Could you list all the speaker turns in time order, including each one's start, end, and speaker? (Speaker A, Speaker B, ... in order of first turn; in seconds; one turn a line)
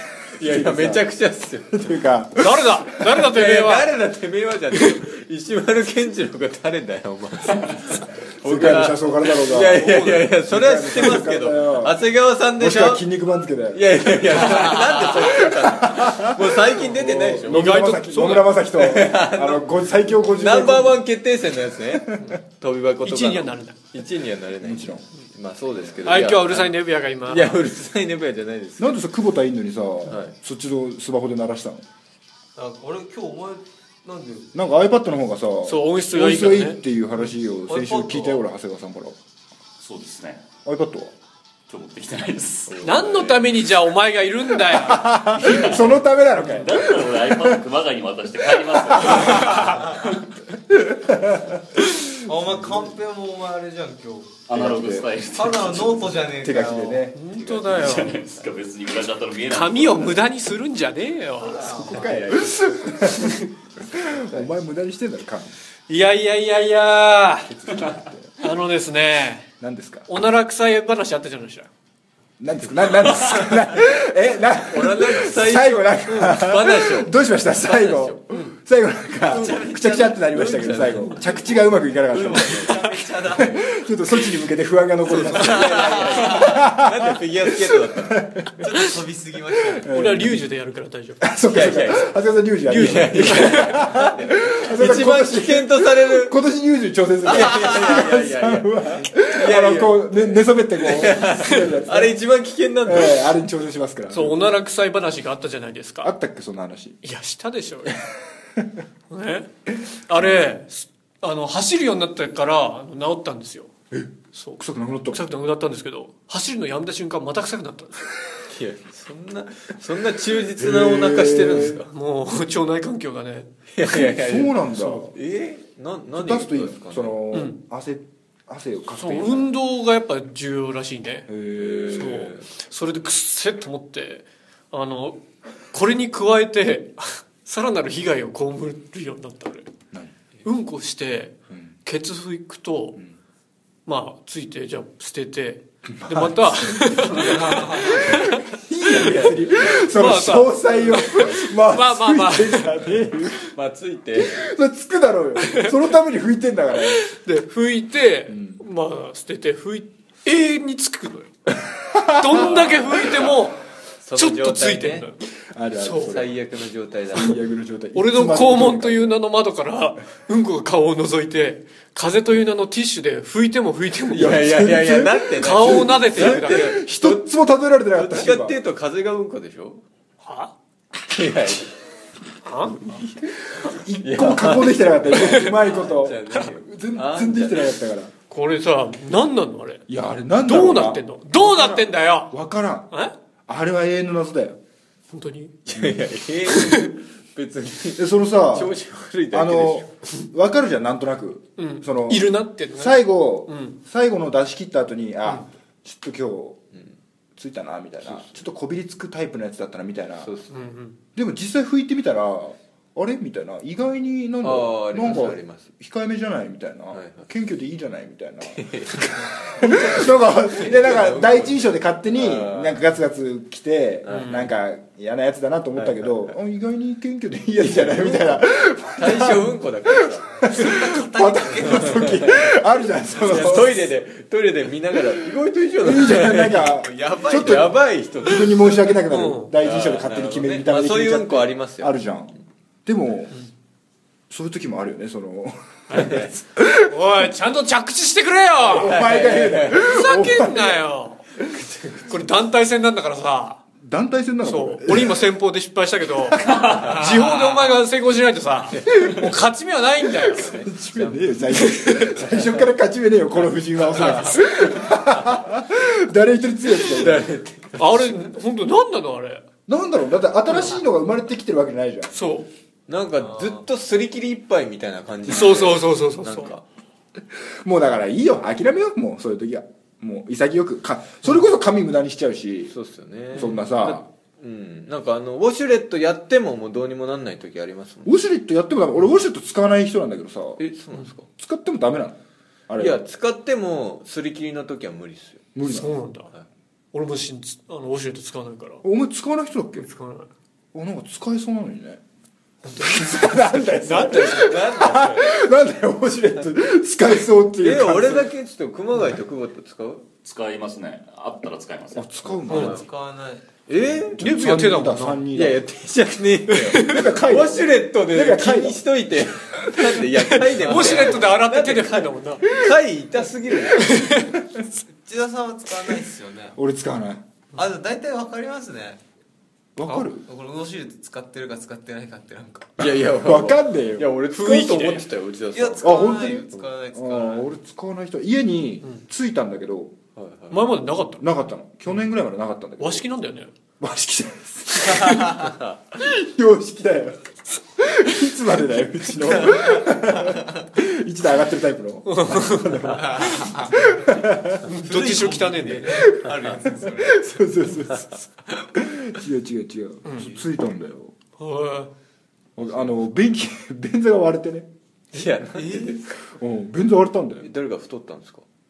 Speaker A: 0.4-1.9
Speaker B: 0.4-1.1
Speaker B: 1.7-2.9
Speaker C: 2.4-3.9
Speaker A: 3.2-13.0
Speaker C: 4.7-5.0
Speaker B: 8.4-12.0
Speaker C: 9.7-10.2
Speaker B: 12.6-21.0
Speaker A: 13.7-17.8
Speaker C: 17.5-18.5
Speaker A: 18.8-19.8
Speaker A: 20.3-29.0
Speaker B: 21.9-22.4
Speaker C: 23.0-23.8
Speaker B: 24.6-25.0
Speaker C: 26.1-27.6
Speaker B: 28.8-31.9
Speaker A: 30.1-30.4
Speaker D: 32.5-34.5
Speaker B: 34.5-39.2
Speaker C: 35.6-36.8
Speaker D: 37.7-38.5
Speaker E: 39.8-40.5
Speaker B: 40.6-41.1
Speaker E: 41.7-42.8
Speaker A: 42.7-43.6
Speaker C: 42.8-45.2
Speaker B: 44.6-47.6
Speaker E: 45.3-46.0
Speaker E: 46.5-50.2
Speaker B: 48.6-49.4
Speaker B: 50.7-52.2
Speaker D: 52.2-54.4
Speaker E: 54.5-56.1
Speaker B: 54.5-55.2
Speaker D: 55.2-57.4
Speaker B: 56.4-57.2
Speaker C: 57.1-58.2
Speaker E: 57.4-60.2
Speaker C: 59.5-61.9
Speaker D: 61.4-63.0
Speaker B: 61.7-65.5
Speaker A: 61.8-62.6
Speaker C: 63.1-63.5
Speaker D: 64.0-64.5
Speaker C: 65.9-69.5
Speaker B: 67.7-68.5
Speaker B: 69.6-70.1
Speaker C: 70.1-71.7
Speaker B: 72.4-88.7
Speaker A: 74.7-78.2
Speaker D: 79.3-80.2
Speaker A: 79.3-81.3
Speaker D: 82.1-83.7
Speaker A: 82.1-83.6
Speaker A: 85.1-88.4
Speaker D: 85.2-86.6
Speaker D: 88.6-89.9
Speaker B: 89.6-90.5
Speaker C: 89.9-91.2
Speaker B: 91.2-102.2
Speaker A: 91.5-92.2
Speaker A: 92.7-96.4
Speaker C: 92.7-93.9
Speaker A: 97.2-103.4
Speaker D: 97.3-98.1
Speaker B: 102.8-104.4
Speaker C: 104.1-106.1
Speaker B: 106.0-107.0
Speaker C: 107.0-108.0
Speaker C: 109.1-109.5
Speaker C: 110.1-113.7
Speaker C: 114.3-114.6
Speaker B: 114.6-115.3
Speaker C: 115.1-118.1
Speaker A: 118.5-121.9
Speaker B: 120.6-121.8
Speaker C: 121.9-123.5
Speaker A: 123.7-124.6
Speaker B: 123.8-125.2
Speaker C: 124.7-125.0
Speaker A: 125.1-127.2
Speaker B: 126.1-129.5
Speaker C: 127.3-127.6
Speaker C: 129.0-131.3
Speaker B: 131.3-132.4
Speaker A: 131.6-132.5
Speaker C: 131.9-135.2
Speaker C: 135.7-139.7
Speaker C: 140.4-143.0
Speaker B: 141.5-141.8
Speaker C: 143.9-148.4
Speaker B: 146.0-153.4
Speaker A: 149.0-149.5
Speaker C: 149.7-152.9
Speaker A: 153.4-154.4
Speaker B: 154.2-157.0
Speaker C: 155.4-155.7
Speaker C: 156.8-161.3
Speaker B: 158.3-158.6
Speaker B: 161.7-162.6
Speaker C: 162.2-163.6
Speaker A: 162.3-163.4
Speaker A: 164.0-165.1
Speaker C: 164.2-165.2
Speaker B: 165.5-166.4
Speaker C: 165.8-166.2
Speaker A: 166.0-167.4
Speaker B: 167.1-169.2
Speaker C: 167.9-174.4
Speaker A: 174.1-177.3
Speaker B: 174.1-178.6
Speaker C: 175.4-176.8
Speaker A: 177.9-179.8
Speaker C: 180.2-180.5
Speaker A: 181.1-181.8
Speaker C: 182.4-182.8
Speaker B: 182.7-188.1
Speaker A: 182.8-187.7
Speaker C: 185.1-185.4
Speaker C: 188.3-189.8
Speaker B: 189.9-192.9
Speaker C: 190.4-192.3
Speaker B: 193.5-194.6
Speaker C: 195.1-195.6
Speaker A: 195.7-199.9
Speaker C: 196.5-197.0
Speaker B: 198.0-198.8
Speaker B: 199.3-206.6
Speaker C: 201.6-203.8
Speaker B: 207.4-210.3
Speaker A: 208.1-208.4
Speaker A: 210.2-210.5
Speaker C: 210.5-211.0
Speaker B: 211.2-233.9
Speaker A: 214.4-215.7
Speaker A: 216.9-217.3
Speaker A: 218.4-222.8
Speaker A: 224.1-224.5
Speaker C: 224.1-224.4
Speaker A: 225.8-226.1
Speaker A: 227.6-228.4
Speaker A: 229.0-230.5
Speaker D: 230.5-232.5
Speaker A: 231.7-232.4
Speaker A: 233.1-238.7
Speaker B: 235.8-242.3
Speaker D: 236.6-237.6
Speaker C: 239.1-239.5
Speaker A: 239.6-241.9
Speaker B: 242.9-243.3
Speaker B: 244.3-246.9
Speaker C: 245.9-246.2
Speaker A: 245.9-246.3
Speaker C: 246.8-249.1
Speaker B: 248.6-250.8
Speaker A: 248.7-249.9
Speaker C: 249.7-251.2
Speaker A: 251.4-252.1
Speaker C: 252.1-253.6
Speaker B: 253.8-255.2
Speaker C: 254.4-260.5
Speaker B: 256.3-257.0
Speaker A: 256.5-257.0
Speaker A: 258.8-259.1
Speaker B: 258.8-259.3
Speaker B: 260.2-267.3
Speaker A: 260.3-262.7
Speaker A: 263.8-264.5
Speaker A: 265.1-265.4
Speaker A: 266.8-268.2
Speaker C: 267.8-269.4
Speaker B: 269.7-272.1
Speaker C: 272.1-272.5
Speaker A: 272.9-276.6
Speaker D: 273.3-273.6
Speaker C: 275.3-276.5
Speaker B: 277.3-282.7
Speaker A: 282.7-288.2
Speaker B: 283.3-284.1
Speaker C: 283.4-283.7
Speaker B: 288.1-290.6
Speaker A: 290.6-291.3
Speaker B: 291.3-292.2
Speaker B: 292.7-293.0
Speaker A: 292.8-295.5
Speaker B: 295.6-296.0
Speaker C: 295.6-296.3
Speaker C: 296.9-298.8
Speaker B: 298.8-299.9
Speaker C: 299.8-300.3
Speaker B: 300.7-302.0
Speaker C: 302.6-304.6
Speaker B: 302.7-308.3
Speaker A: 304.2-305.4
Speaker A: 307.6-310.1
Speaker E: 310.2-312.2
Speaker B: 311.9-312.9
Speaker A: 312.2-312.9
Speaker D: 312.5-313.5
Speaker C: 312.5-312.7
Speaker A: 313.7-314.2
Speaker B: 314.1-315.6
Speaker C: 314.2-315.2
Speaker A: 315.3-324.0
Speaker C: 316.6-317.0
Speaker B: 316.8-318.8
Speaker C: 320.2-322.5
Speaker C: 323.8-324.4
Speaker D: 325.0-326.6
Speaker B: 326.6-327.2
Speaker D: 327.6-329.0
Speaker B: 329.8-330.2
Speaker D: 330.2-332.9
Speaker A: 332.8-336.7
Speaker B: 333.2-334.1
Speaker C: 334.4-335.0
Speaker D: 335.5-337.5
Speaker B: 335.8-339.9
Speaker A: 340.2-340.6
Speaker C: 340.5-341.3
Speaker B: 341.2-343.1
Speaker C: 342.8-343.5
Speaker B: 343.8-354.7
Speaker A: 345.2-345.8
Speaker C: 352.1-353.0
Speaker D: 352.9-354.0
Speaker C: 354.6-356.1
Speaker D: 354.8-357.7
Speaker B: 355.9-361.1
Speaker C: 360.1-360.4
Speaker C: 361.4-361.9
Speaker B: 362.6-364.7
Speaker A: 365.1-366.1
Speaker D: 365.6-366.0
Speaker B: 366.3-367.5
Speaker A: 367.4-368.4